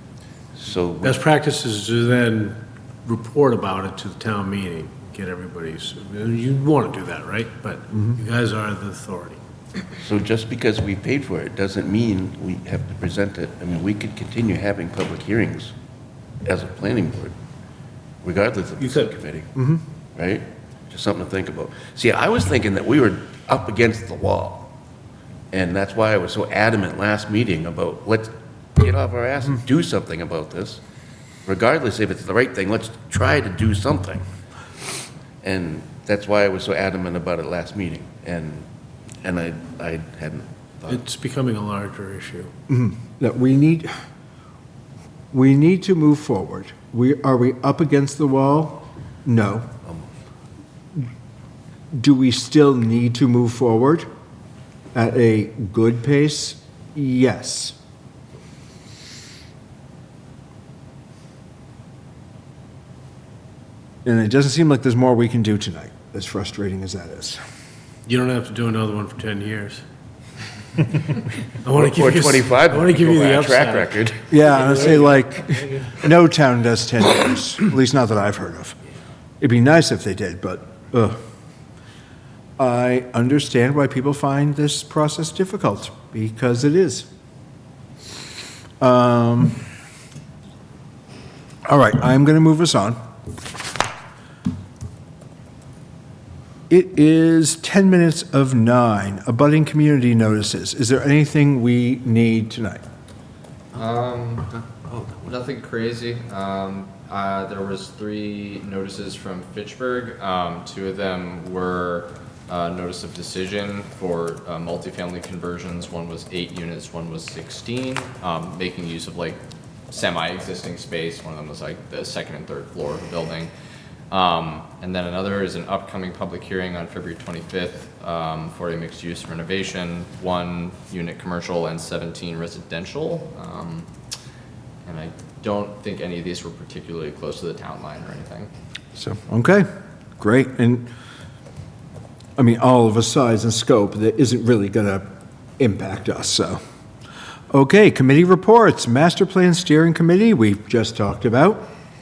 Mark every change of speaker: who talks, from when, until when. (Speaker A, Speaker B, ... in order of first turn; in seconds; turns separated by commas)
Speaker A: 0.6-1.2, Speaker B: 1.0-9.4, Speaker A: 10.0-15.8, Speaker A: 16.4-17.3, Speaker A: 18.2-19.5, Speaker B: 18.8-19.1, Speaker C: 19.5-19.8, Speaker A: 20.2-24.7, Speaker A: 25.5-30.8, Speaker A: 31.5-34.2, Speaker A: 35.4-38.7, Speaker A: 39.2-41.0, Speaker B: 40.9-42.5, Speaker C: 42.7-43.9, Speaker C: 45.3-49.7, Speaker C: 51.9-54.1, Speaker C: 54.9-57.8, Speaker C: 64.0-67.4, Speaker B: 68.1-69.8, Speaker B: 71.6-75.9, Speaker A: 71.7-74.2, Speaker C: 74.3-78.8, Speaker C: 79.4-81.2, Speaker C: 82.6-87.1, Speaker C: 88.8-89.6, Speaker C: 91.7-93.0, Speaker C: 96.7-102.8, Speaker D: 103.7-104.5, Speaker A: 104.5-105.3, Speaker D: 105.2-119.4, Speaker D: 119.9-123.5, Speaker D: 124.1-133.9, Speaker D: 134.8-138.5, Speaker C: 138.9-139.7, Speaker C: 140.2-140.9, Speaker C: 142.4-146.6, Speaker C: 147.5-151.7